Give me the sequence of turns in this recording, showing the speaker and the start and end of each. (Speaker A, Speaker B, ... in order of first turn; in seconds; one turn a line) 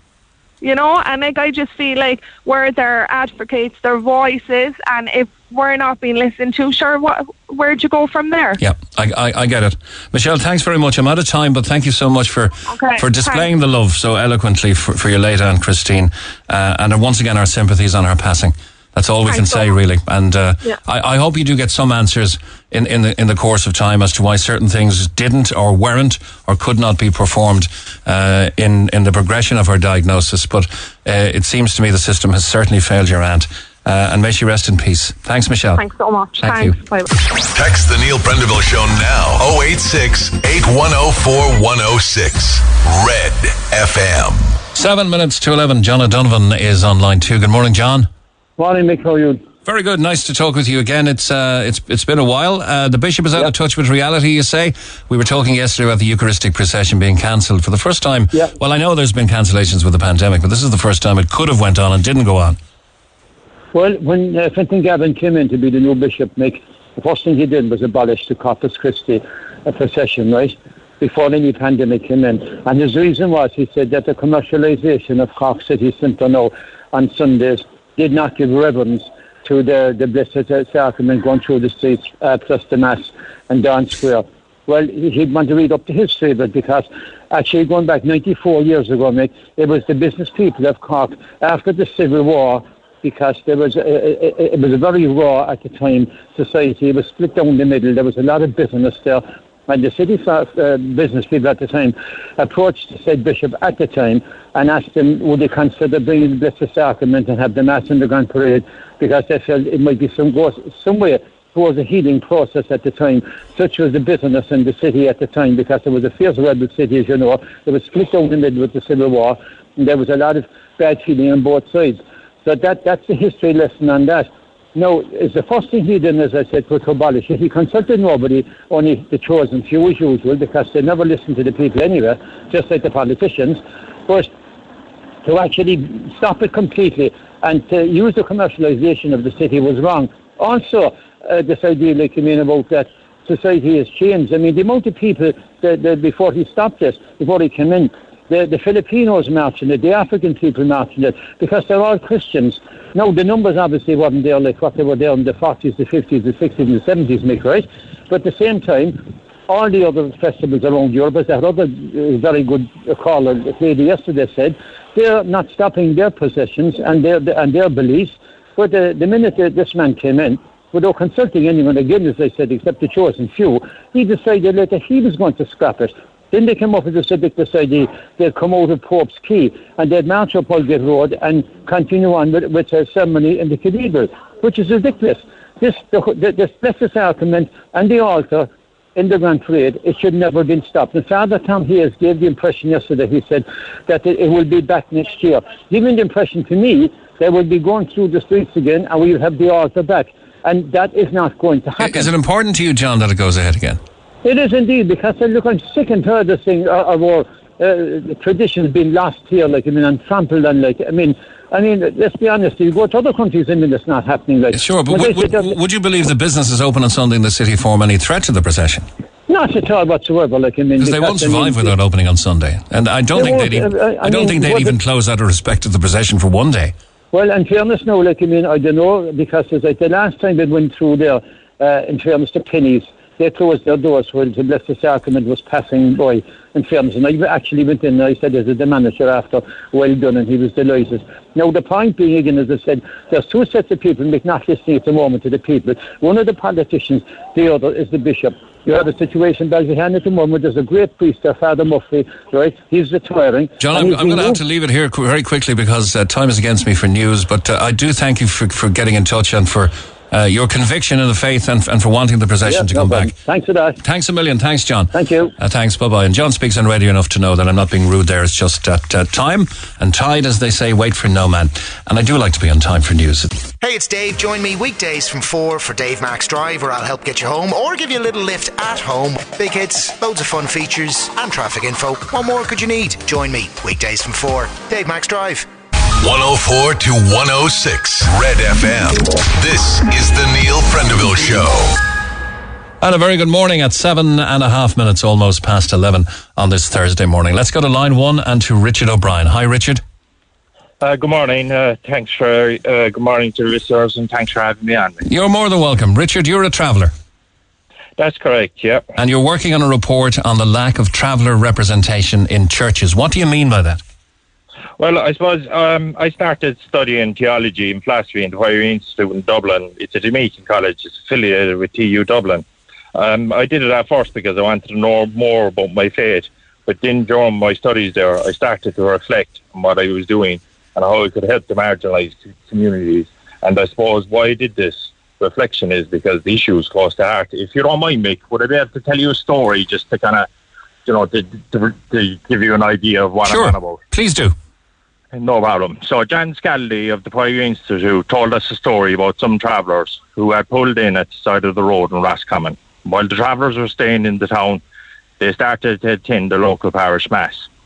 Speaker A: 0.6-8.6
Speaker B: 8.6-35.8
Speaker A: 12.7-13.5
Speaker A: 19.2-19.8
Speaker A: 35.8-37.2
Speaker B: 36.4-36.8
Speaker C: 37.5-44.5
Speaker B: 44.7-48.1
Speaker D: 48.6-49.4
Speaker B: 49.6-62.6
Speaker D: 63.7-69.2
Speaker D: 69.7-76.5
Speaker D: 77.0-99.2
Speaker D: 99.7-119.3
Speaker D: 119.8-122.0
Speaker D: 122.5-124.2
Speaker D: 124.8-133.5
Speaker D: 135.3-140.8
Speaker D: 141.3-152.5
Speaker D: 153.0-158.9
Speaker D: 159.5-188.4
Speaker D: 189.0-202.0
Speaker B: 201.8-203.8
Speaker D: 204.3-215.4
Speaker B: 214.5-218.9
Speaker D: 219.3-221.7
Speaker B: 220.8-226.7
Speaker D: 223.2-224.7
Speaker D: 227.2-231.1
Speaker D: 231.7-232.8
Speaker D: 233.3-236.1
Speaker D: 236.6-239.4
Speaker D: 240.0-254.3
Speaker B: 253.6-263.1
Speaker D: 262.5-263.7
Speaker B: 263.8-273.4
Speaker D: 264.9-265.3
Speaker E: 273.6-285.4
Speaker C: 286.0-291.8
Speaker B: 292.8-299.8
Speaker F: 300.8-305.0
Speaker B: 305.0-306.9
Speaker F: 308.0-308.9
Speaker B: 308.9-313.8
Speaker F: 314.8-340.3
Speaker F: 340.9-343.8
Speaker B: 343.2-344.3
Speaker F: 345.1-354.6
Speaker F: 355.2-357.5